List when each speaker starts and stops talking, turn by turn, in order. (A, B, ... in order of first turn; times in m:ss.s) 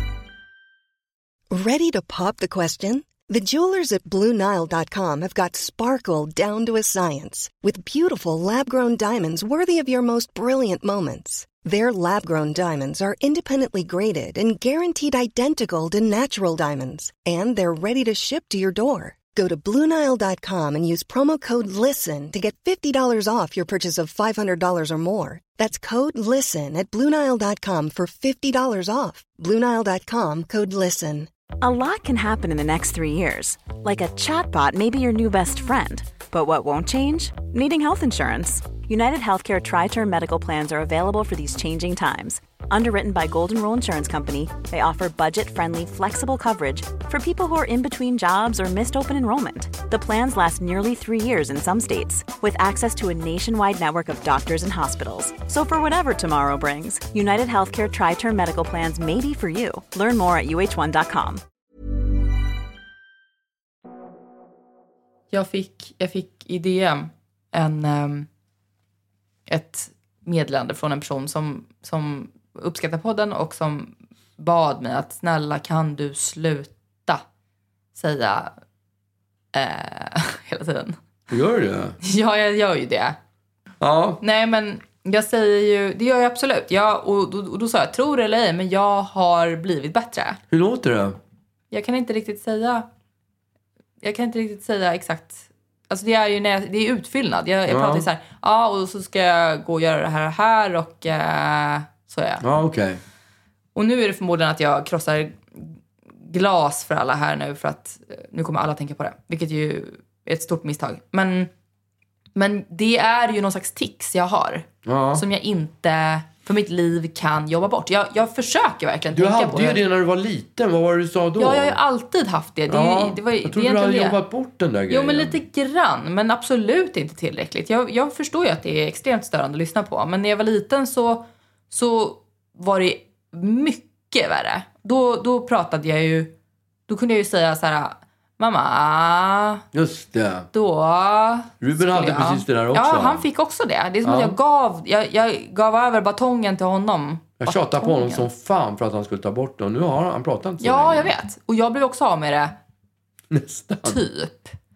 0:01.5-0:31.3 A
0:31.6-1:01.4 B
1:05.3-1:08.3 C
1:09.5-1:17.2 C
1:17.9-1:18.5 C
1:19.5-1:21.0 C
1:21.3-1:22.0 D
1:22.0-1:23.2 C
1:23.8-1:24.2 D
1:24.2-1:30.4 C
1:30.5-1:31.2 D
1:31.7-1:32.9 C
1:34.0-1:42.4 C
1:37.7-1:38.0 D
1:42.4-1:43.0 D
1:43.8-1:51.5 C
1:52.3-1:59.8 C
1:54.8-1:55.2 D
1:59.1-2:01.8 D
2:01.4-2:04.2 C
2:02.7-2:05.4 D
2:04.9-2:16.3 C
2:16.9-2:19.6 C
2:19.7-2:20.5 D
2:20.5-2:28.2 C
2:21.6-2:23.2 D
2:24.0-2:24.4 D
2:27.4-2:31.1 D
2:30.6-2:32.5 C
2:33.3-2:34.0 D
2:33.8-2:34.5 C